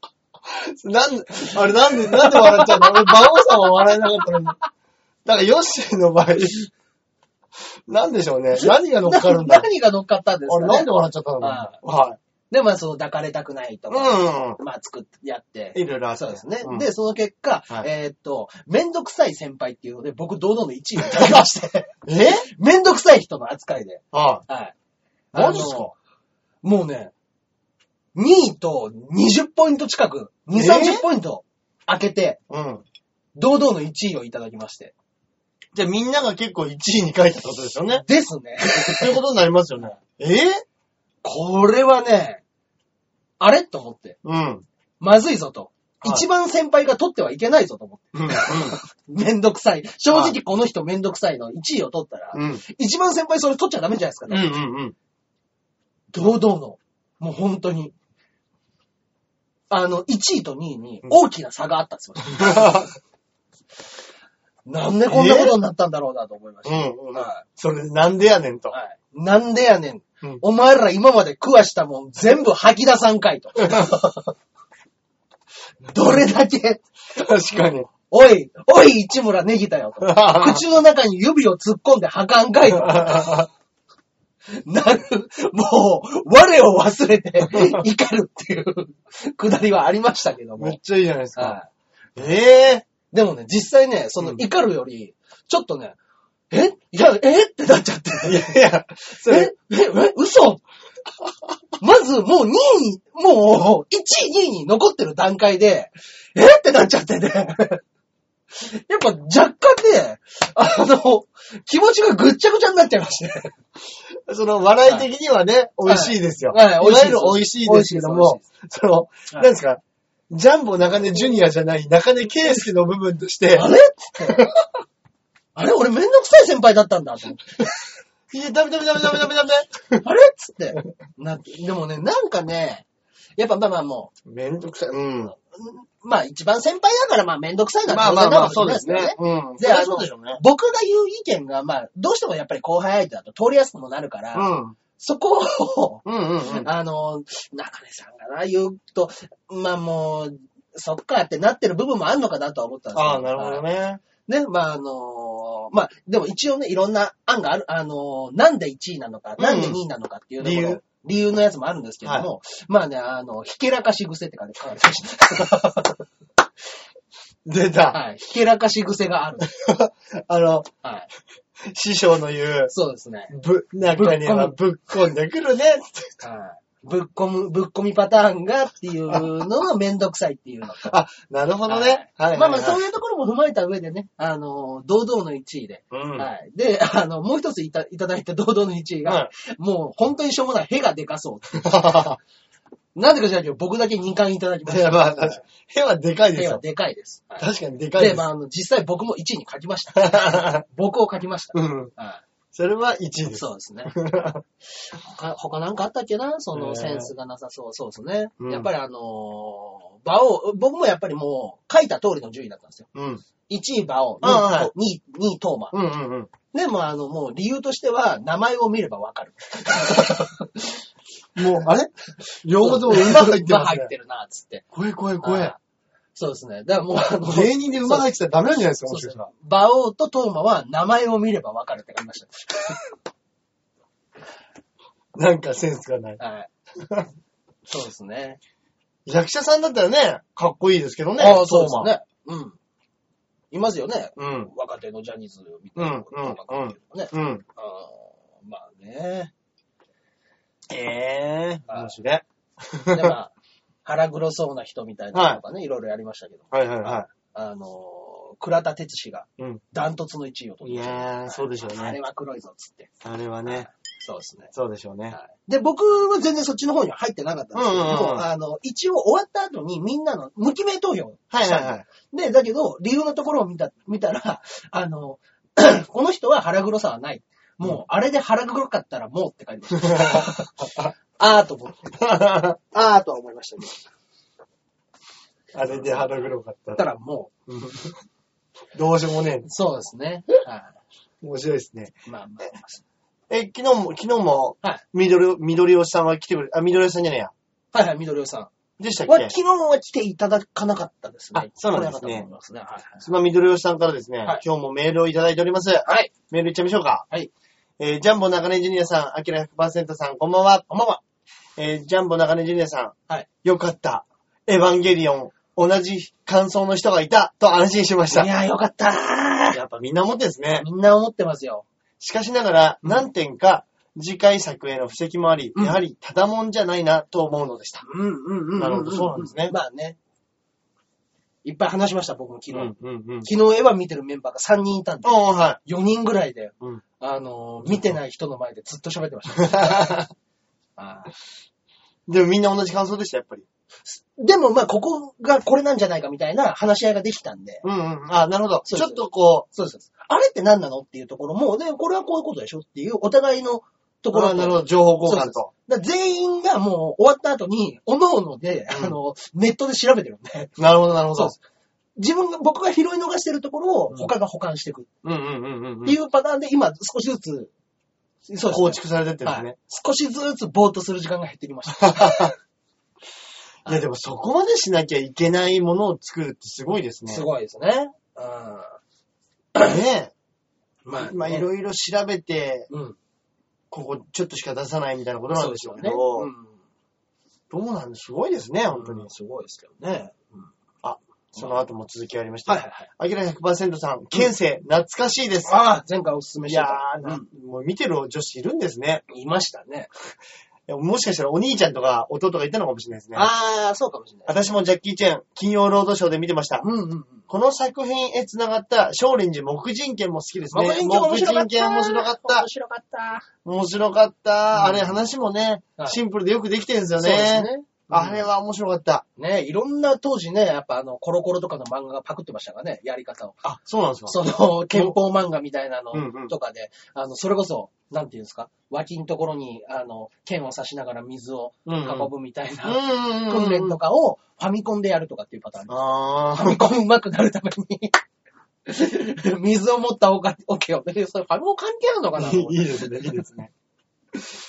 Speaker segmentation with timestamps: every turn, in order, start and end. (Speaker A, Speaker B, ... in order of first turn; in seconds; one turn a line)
Speaker A: 0.5-4.6
Speaker B: 1.4-4.3
Speaker A: 5.2-6.7
Speaker A: 7.9-9.7
Speaker B: 8.5-11.8
Speaker A: 10.5-12.2
Speaker B: 12.5-21.9
Speaker A: 13.9-14.6
Speaker A: 15.7-16.9
Speaker A: 21.1-21.4
Speaker A: 22.1-22.5
Speaker B: 22.4-24.7
Speaker A: 24.1-24.4
Speaker B: 25.3-25.9
Speaker A: 25.3-25.9
Speaker B: 26.6-27.1
Speaker B: 28.1-32.4
Speaker A: 30.5-31.0
Speaker A: 32.5-32.8
Speaker B: 33.4-34.9
Speaker A: 35.7-38.0
Speaker B: 38.0-39.2
Speaker A: 38.6-40.6
Speaker B: 41.2-42.4
Speaker B: 43.4-44.2
Speaker A: 44.2-44.6
Speaker B: 45.0-54.6
Speaker A: 48.1-48.8
Speaker A: 50.1-50.4
Speaker A: 52.3-52.6
Speaker A: 54.3-54.9
Speaker B: 56.1-57.9
Speaker B: 59.7-62.9
Speaker A: 62.3-62.9
Speaker B: 64.7-67.4
Speaker A: 65.1-65.6
Speaker A: 66.6-68.8
Speaker B: 68.7-74.3
Speaker B: 75.9-76.8
Speaker A: 77.1-77.9
Speaker B: 78.1-83.5
Speaker A: 80.0-80.6
Speaker A: 82.7-83.5
Speaker B: 84.5-90.8
Speaker A: 87.5-87.8
Speaker A: 90.6-91.6
Speaker B: 91.3-91.7
Speaker A: 92.2-92.8
Speaker B: 93.1-96.0
Speaker B: 96.5-98.6
Speaker A: 98.2-99.5
Speaker B: 99.1-100.6
Speaker B: 101.8-107.8
Speaker B: 108.5-113.5
Speaker A: 114.3-123.7
Speaker B: 115.8-118.4
Speaker B: 123.5-124.5
Speaker A: 124.2-124.5
Speaker B: 125.5-127.7
Speaker A: 128.3-130.0
Speaker B: 130.0-132.8
Speaker B: 133.4-134.1
Speaker A: 134.2-135.3
Speaker B: 135.3-153.6
Speaker A: 137.9-140.4
Speaker A: 144.3-144.8
Speaker A: 146.0-146.7
Speaker A: 152.9-154.0
Speaker B: 154.2-166.0
Speaker A: 159.4-159.8
Speaker A: 160.4-160.8
Speaker A: 167.4-168.0
Speaker B: 167.9-169.5
Speaker A: 169.5-170.7
Speaker B: 170.8-171.1
Speaker A: 171.6-172.7
Speaker B: 172.7-173.3
Speaker A: 173.3-176.1
Speaker B: 173.9-174.6
Speaker B: 176.2-180.9
Speaker A: 180.8-182.8
Speaker B: 181.7-192.0
Speaker A: 185.9-186.3
Speaker A: 189.1-189.3
Speaker A: 191.5-192.2
Speaker B: 192.9-195.4
Speaker A: 194.7-196.6
Speaker B: 196.3-202.2
Speaker A: 197.4-198.2
Speaker A: 200.0-200.6
Speaker A: 201.5-201.9
Speaker A: 202.5-204.4
Speaker B: 203.3-203.9
Speaker B: 204.9-212.9
Speaker A: 206.5-207.1
Speaker A: 208.4-208.7
Speaker A: 212.9-213.2
Speaker B: 213.5-215.8
Speaker A: 214.2-214.7
Speaker A: 215.7-216.3
Speaker B: 216.5-220.7
Speaker A: 221.3-221.9
Speaker A: 222.4-223.9
Speaker B: 222.6-224.6
Speaker A: 224.7-225.5
Speaker B: 225.2-225.6
Speaker B: 226.1-228.1
Speaker A: 227.2-229.2
Speaker B: 228.9-232.8
Speaker A: 235.1-236.2
Speaker B: 236.2-236.5
Speaker A: 236.8-237.1
Speaker B: 237.7-238.4
Speaker A: 239.1-241.9
Speaker B: 241.2-242.6
Speaker B: 243.5-249.3
Speaker A: 244.2-244.5
Speaker A: 245.8-247.4
Speaker A: 250.7-253.1
Speaker B: 251.7-251.9
Speaker B: 252.9-253.3
Speaker B: 253.8-262.9
Speaker A: 255.1-255.4
Speaker A: 256.5-257.1
Speaker A: 260.6-262.0
Speaker A: 263.0-263.7
Speaker B: 263.4-264.5
Speaker A: 264.5-265.2
Speaker B: 265.1-281.9
Speaker A: 267.5-268.3
Speaker A: 271.3-271.9
Speaker A: 279.8-280.9
Speaker A: 282.0-282.6
Speaker B: 282.7-283.9
Speaker A: 285.5-286.9
Speaker B: 285.7-287.3
Speaker A: 287.5-288.0
Speaker A: 288.7-289.5
Speaker B: 289.4-290.8
Speaker A: 291.2-291.9
Speaker B: 292.1-292.8
Speaker A: 293.3-297.3
Speaker B: 297.7-298.5
Speaker A: 298.8-299.3
Speaker B: 299.0-303.1
Speaker A: 301.3-302.3
Speaker A: 303.0-307.1
Speaker B: 305.8-306.1
Speaker A: 307.8-310.7
Speaker B: 310.7-311.0
Speaker A: 311.6-318.3
Speaker B: 318.1-319.6
Speaker A: 319.5-320.6
Speaker B: 320.6-321.6
Speaker A: 322.0-327.8
Speaker B: 325.5-325.8
Speaker B: 327.8-330.0
Speaker A: 328.6-329.5
Speaker B: 331.4-340.1
Speaker A: 332.5-333.3
Speaker A: 335.0-335.6
Speaker A: 339.4-340.1
Speaker B: 340.8-341.1
Speaker A: 342.1-343.5
Speaker B: 343.8-347.6
Speaker A: 347.6-349.4
Speaker B: 348.6-360.6
Speaker A: 354.1-355.5
Speaker A: 360.6-361.3
Speaker B: 361.1-361.4
Speaker B: 362.0-364.9
Speaker A: 365.0-365.9
Speaker B: 365.8-367.5
Speaker B: 368.3-372.3
Speaker A: 368.5-369.5
Speaker A: 371.8-372.3
Speaker A: 373.6-377.2
Speaker B: 377.1-378.8
Speaker A: 379.6-380.1
Speaker B: 380.8-381.5
Speaker A: 381.0-382.7
Speaker B: 382.7-383.0
Speaker A: 383.7-386.3
Speaker B: 385.3-386.6
Speaker A: 387.5-389.1
Speaker B: 388.7-390.5
Speaker A: 390.8-395.6
Speaker B: 391.4-391.6
Speaker B: 392.4-392.9
Speaker B: 395.4-397.3
Speaker A: 396.5-399.0
Speaker B: 399.1-399.9
Speaker A: 400.7-403.3
Speaker B: 403.1-404.4
Speaker A: 404.3-406.6
Speaker B: 406.6-407.3
Speaker A: 407.3-412.4
Speaker B: 410.5-413.3
Speaker A: 413.4-419.0
Speaker B: 414.5-414.9
Speaker B: 417.0-418.3
Speaker B: 419.2-423.4
Speaker A: 423.4-424.2
Speaker B: 424.1-435.8
Speaker A: 424.7-424.9
Speaker A: 425.9-426.3
Speaker A: 431.6-432.1
Speaker A: 432.6-433.8
Speaker A: 435.7-436.7
Speaker B: 436.3-438.0
Speaker B: 438.7-443.2
Speaker A: 442.1-443.5